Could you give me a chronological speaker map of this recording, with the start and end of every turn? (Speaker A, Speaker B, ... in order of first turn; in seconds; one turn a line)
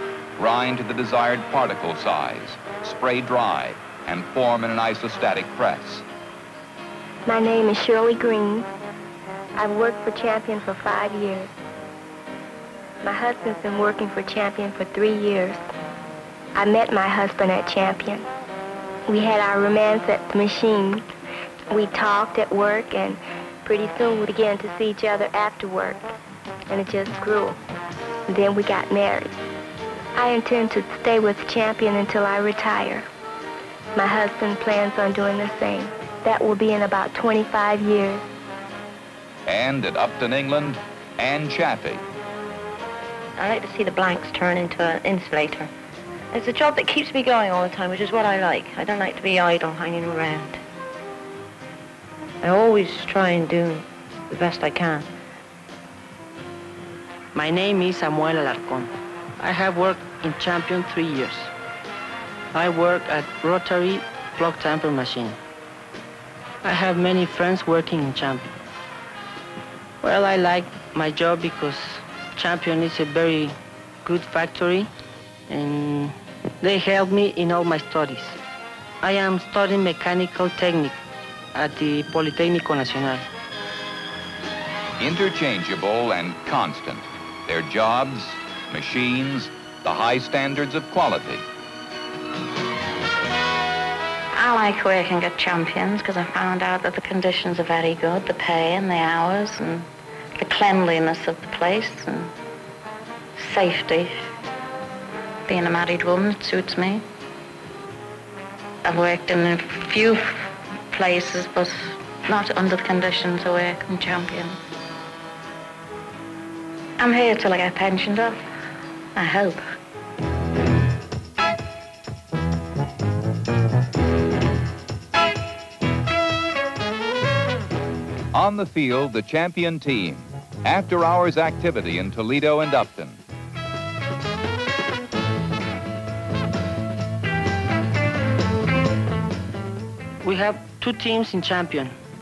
Speaker A: 0.4-6.0
Speaker B: 7.3-8.6
Speaker B: 9.6-11.5
Speaker B: 13.1-15.6
Speaker B: 16.6-18.2
Speaker B: 19.1-21.0
Speaker B: 21.7-26.0
Speaker B: 26.7-27.5
Speaker B: 28.3-29.3
Speaker B: 30.2-33.0
Speaker B: 34.0-38.2
Speaker A: 39.5-42.0
Speaker C: 43.4-45.7
Speaker C: 46.3-50.6
Speaker C: 52.4-55.1
Speaker D: 57.3-61.5
Speaker D: 62.5-65.4
Speaker D: 66.6-68.5
Speaker D: 70.0-74.9
Speaker D: 75.5-78.4
Speaker D: 79.0-81.0
Speaker D: 81.5-83.3
Speaker A: 85.0-91.4
Speaker E: 94.3-102.3
Speaker E: 103.4-104.2
Speaker E: 105.5-107.0
Speaker E: 108.8-114.6
Speaker E: 117.0-118.4
Speaker E: 119.1-119.6
Speaker A: 128.3-133.2
Speaker D: 140.2-141.9